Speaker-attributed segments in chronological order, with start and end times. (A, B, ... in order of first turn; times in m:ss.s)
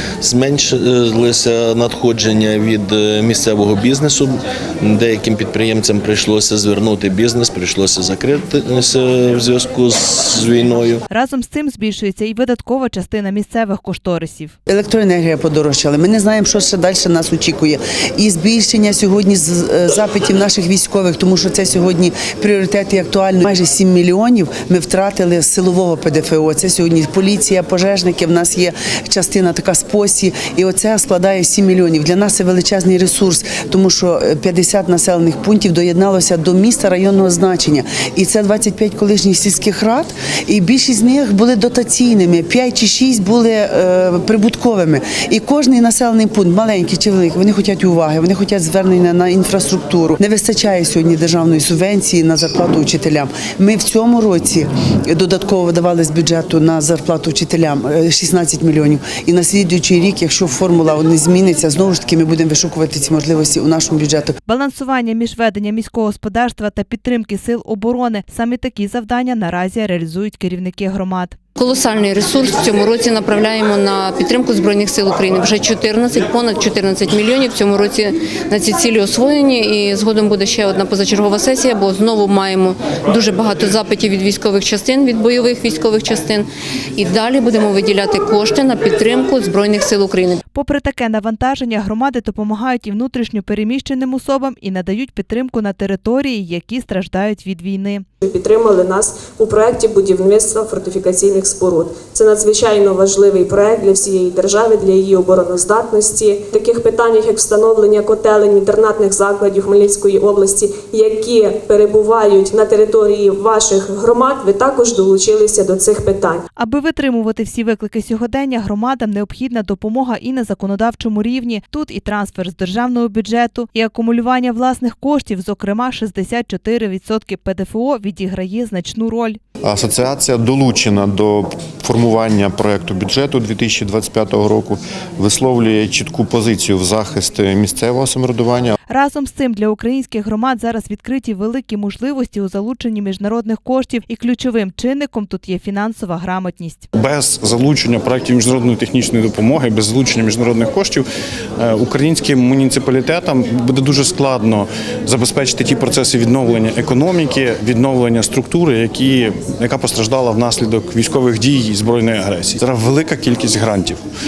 0:00.2-0:11.0 A
0:11.1-0:14.5 B
0:14.7-1:04.3 C
1:04.4-1:11.4 B
1:11.6-1:30.4 D
1:30.5-1:38.0 B
1:38.2-1:56.4 E
1:56.6-2:09.4 B
2:09.6-2:18.8 F
2:18.9-2:26.9 B
2:26.9-2:31.0 G
2:31.6-2:44.0 G